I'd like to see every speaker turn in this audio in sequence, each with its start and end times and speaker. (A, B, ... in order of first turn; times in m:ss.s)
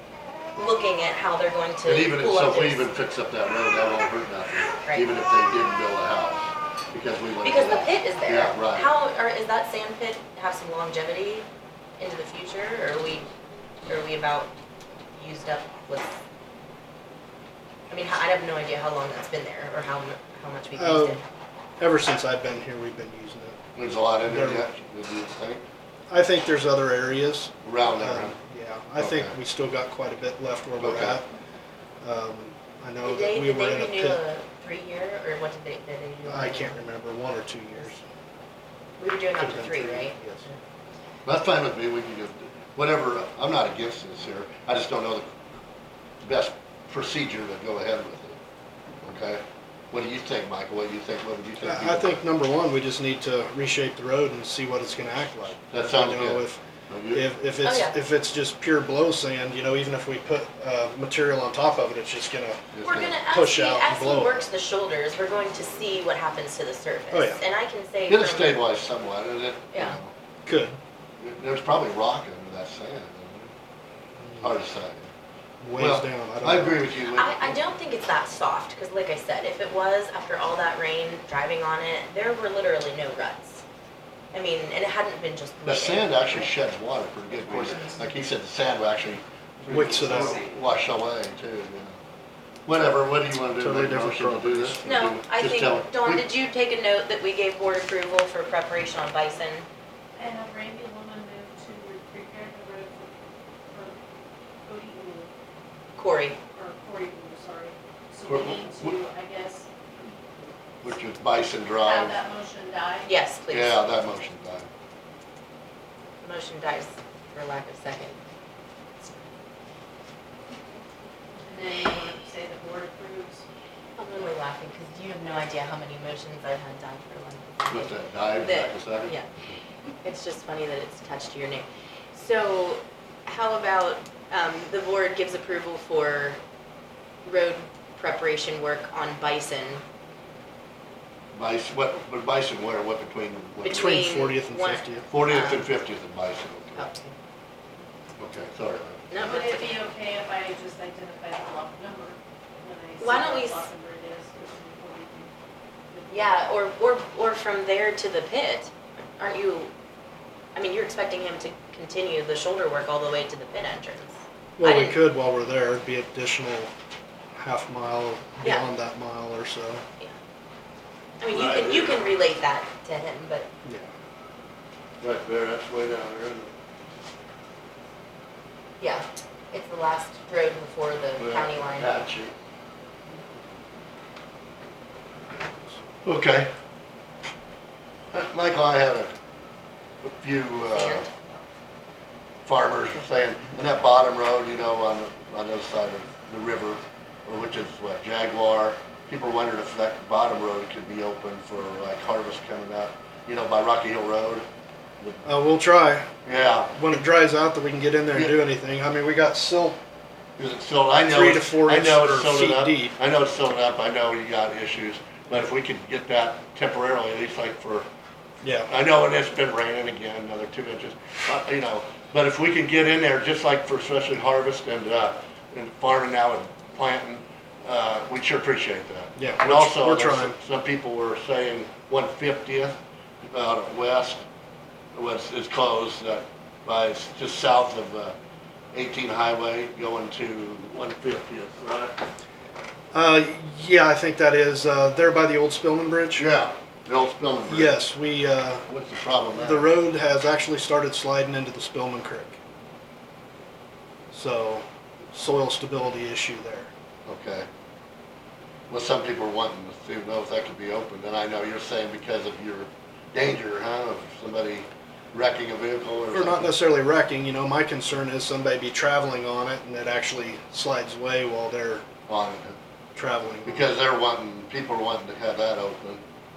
0:00.5-0:02.8 A
0:01.8-0:08.9 B
0:04.8-0:05.1 A
0:07.4-0:11.5 A
0:12.0-0:13.3 A
0:13.8-0:14.5 A
0:15.1-0:16.2 A
0:17.9-0:21.2 A
0:20.7-0:21.2 C
0:21.8-0:23.6 C
0:23.7-0:25.6 B
0:24.2-0:24.6 C
0:26.1-0:31.2 C
0:27.6-0:28.4 B
0:29.0-0:29.4 B
0:30.8-0:31.2 B
0:32.0-0:34.2 C
0:33.0-0:36.9 A
0:36.2-0:38.0 C
0:39.0-0:40.6 A
0:39.4-0:40.4 C
0:41.2-0:45.3 B
0:46.2-0:48.4 B
0:49.0-0:52.2 B
0:51.6-1:04.4 C
0:55.7-0:57.3 B
0:57.6-0:58.0 A
1:02.7-1:03.1 B
1:02.8-1:08.6 A
1:07.1-1:07.4 C
1:08.1-1:10.1 B
1:10.4-1:10.8 C
1:11.2-1:13.5 B
1:14.2-1:14.5 C
1:14.4-1:15.1 B
1:15.6-1:16.8 C
1:15.8-1:17.6 B
1:17.1-1:23.6 A
1:24.3-1:26.4 A
1:25.6-1:32.0 B
1:27.5-1:27.8 A
1:29.7-1:30.4 C
1:32.6-1:36.2 B
1:33.6-1:34.8 C
1:34.8-1:39.6 A
1:40.2-1:44.0 D
1:44.6-1:45.3 D
1:46.0-1:46.4 A
1:46.5-1:49.7 D
1:48.2-1:49.0 B
1:50.8-1:52.2 B
1:51.8-1:53.2 D
1:53.0-1:53.8 A
1:53.5-1:54.7 B
1:56.2-1:58.2 A
2:01.4-2:03.4 D
2:04.0-2:09.3 A
2:07.7-2:09.2 B
2:10.0-2:16.4 A
2:17.2-2:19.8 A
2:21.3-2:24.0 B
2:23.6-2:25.7 A
2:23.6-2:25.0 C
2:25.0-2:26.9 B
2:26.8-2:27.1 A
2:28.2-2:29.2 B
2:29.1-2:29.8 A
2:29.2-2:35.3 D
2:33.0-2:33.7 A
2:35.9-2:36.4 D
2:36.1-2:39.7 A
2:40.5-2:45.0 A
2:44.6-2:46.7 C
2:47.4-2:49.8 C
2:51.2-2:53.5 A
2:51.3-2:52.0 B
2:53.6-2:53.9 C
2:55.0-2:56.5 B
2:58.8-3:02.0 A
3:01.2-3:02.3 B
3:06.0-3:06.5 B
3:08.1-3:09.1 B
3:10.0-3:11.1 B
3:10.7-3:11.4 A
3:12.4-3:24.4 B
3:25.0-3:25.3 B
3:25.2-3:26.1 C
3:26.2-3:26.9 B
3:26.7-3:29.8 C
3:28.1-3:28.4 B
3:30.4-3:37.9 B
3:31.1-3:33.0 C
3:38.4-3:38.7 C
3:38.7-3:52.8 B
3:49.2-3:50.4 C
3:53.3-3:54.2 B
3:54.9-3:58.1 B
3:58.7-4:02.0 B
4:02.9-4:06.2 C
4:06.1-4:07.8 B
4:07.5-4:08.6 C
4:08.6-4:09.8 B
4:09.4-4:12.4 C
4:14.1-4:16.7 C
4:17.1-4:17.5 B
4:18.7-4:26.5 B
4:26.1-4:31.8 C
4:32.1-4:32.6 B
4:32.9-4:33.7 C
4:33.4-4:36.0 B